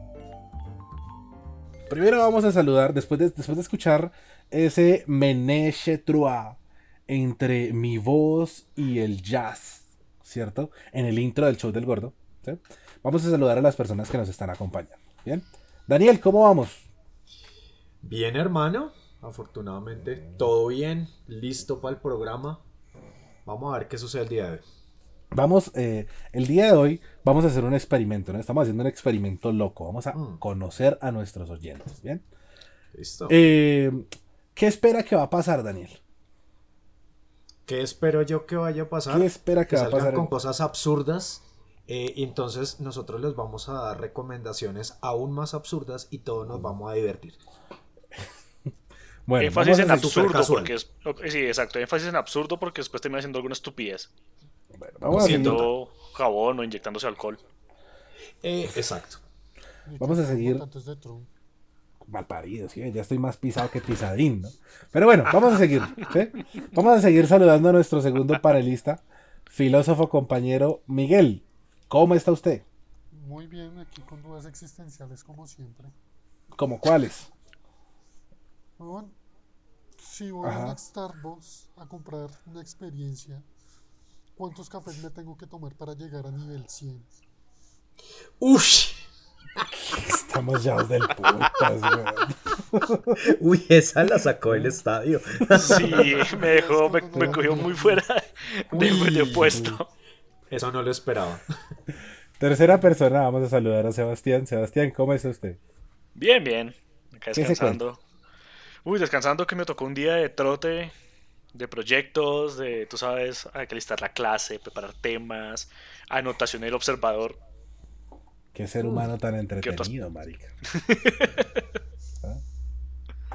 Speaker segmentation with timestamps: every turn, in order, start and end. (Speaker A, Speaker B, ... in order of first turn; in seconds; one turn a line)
Speaker A: 1.9-16.9
Speaker B: 18.0-22.6
Speaker B: 23.5-24.6
Speaker A: 25.3-32.2
Speaker B: 30.1-30.4
Speaker B: 32.9-33.4
Speaker A: 33.3-36.0
Speaker B: 37.7-47.4
Speaker A: 39.1-40.3
Speaker A: 49.3-50.3
Speaker C: 49.4-54.1
Speaker B: 49.9-50.7
Speaker A: 54.8-55.7
Speaker B: 55.1-55.7
Speaker C: 55.1-57.4
Speaker B: 58.4-59.2
Speaker D: 59.9-61.3
Speaker A: 60.0-60.6
Speaker A: 62.1-72.7
Speaker D: 73.1-75.9
Speaker A: 76.6-77.3
Speaker D: 78.8-79.2
Speaker D: 80.0-83.5
Speaker A: 80.4-80.8
Speaker D: 84.4-87.1
Speaker B: 88.4-89.0
Speaker A: 89.7-93.2
Speaker B: 93.2-96.3
Speaker A: 94.5-94.8
Speaker A: 95.4-95.8
Speaker C: 95.5-99.9
Speaker D: 96.3-98.0
Speaker A: 97.2-97.5
Speaker B: 98.7-99.7
Speaker A: 99.5-99.8
Speaker B: 100.5-101.4
Speaker A: 102.4-105.6
Speaker C: 106.2-108.0
Speaker A: 107.3-107.8
Speaker C: 108.8-110.9
Speaker C: 111.5-117.4
Speaker A: 118.5-120.5
Speaker B: 118.8-119.1
Speaker C: 119.6-119.9
Speaker C: 120.7-121.4